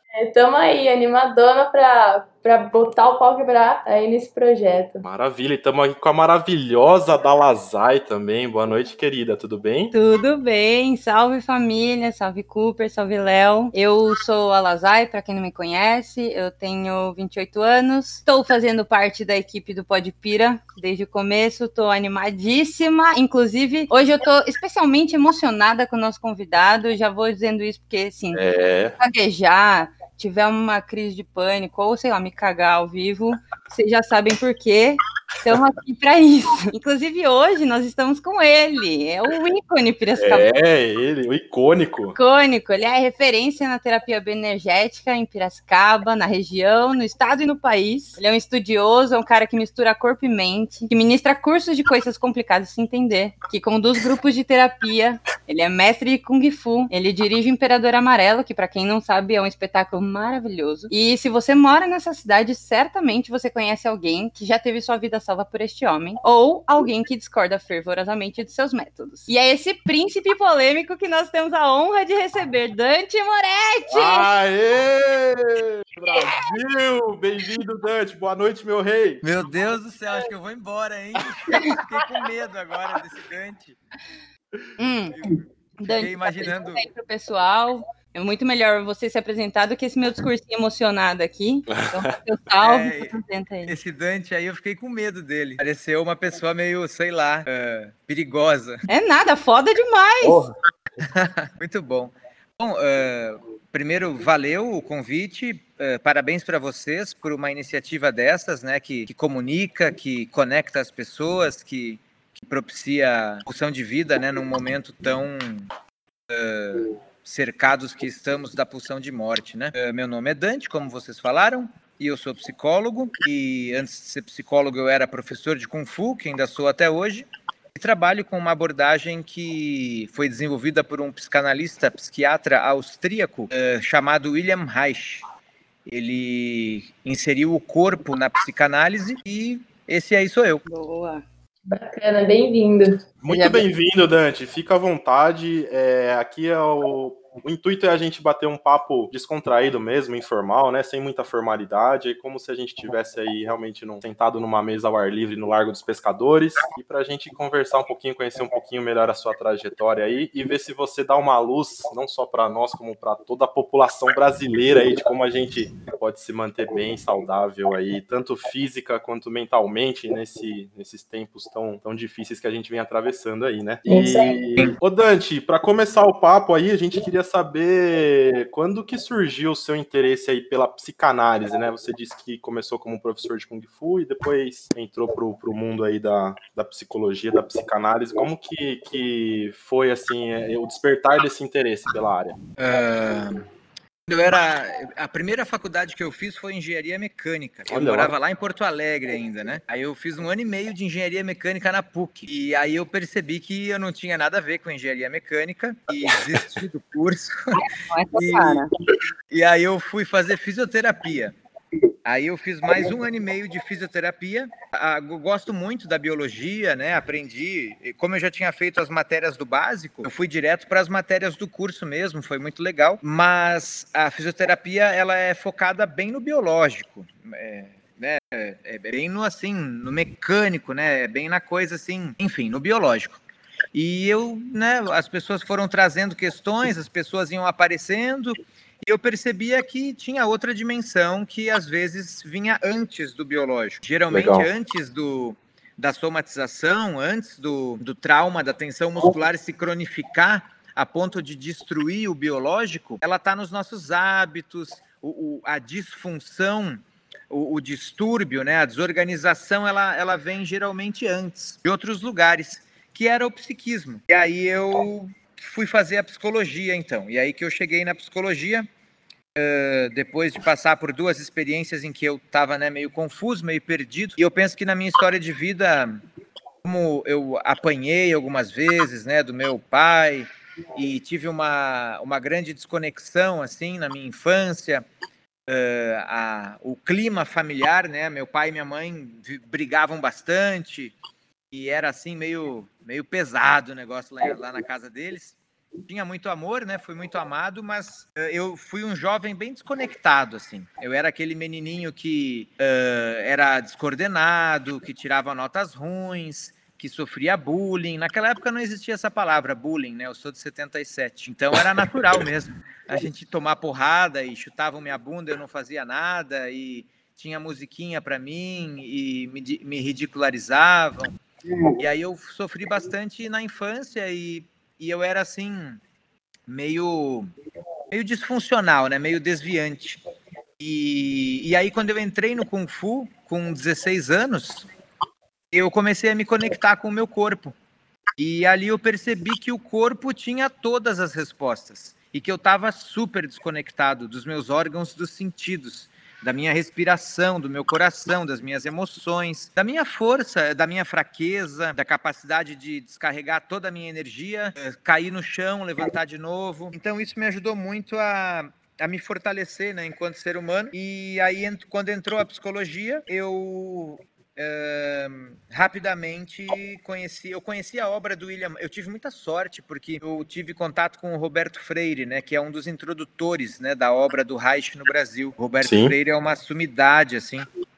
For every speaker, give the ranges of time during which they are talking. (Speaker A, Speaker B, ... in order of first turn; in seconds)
Speaker A: 0.1-5.0, 141.7-143.0, 173.9-174.4
Speaker B: 5.0-9.9, 28.3-28.9, 40.2-42.1, 73.9-79.2, 91.7-92.1, 100.2-100.5, 143.2-192.4, 197.7-198.1, 244.1-244.5, 375.6-375.9
Speaker C: 9.9-28.5, 29.0-40.5, 42.2-74.3, 81.5-81.8, 84.8-85.2, 85.8-93.7, 98.9-100.4, 140.7-141.2, 143.3-143.6, 207.6-208.7
Speaker D: 79.2-83.8, 85.1-86.8, 92.6-93.2, 93.7-98.8, 101.1-115.7, 116.3-135.2, 135.9-140.6, 192.6-193.4, 194.1-207.6, 208.1-208.6, 209.3-211.4, 212.1-233.2, 233.7-268.7, 269.3-276.0, 276.6-284.9, 285.5-290.9, 291.5-321.2, 321.8-325.8, 326.5-327.3, 327.9-330.0, 330.6-334.6, 335.5-337.6, 338.2-377.4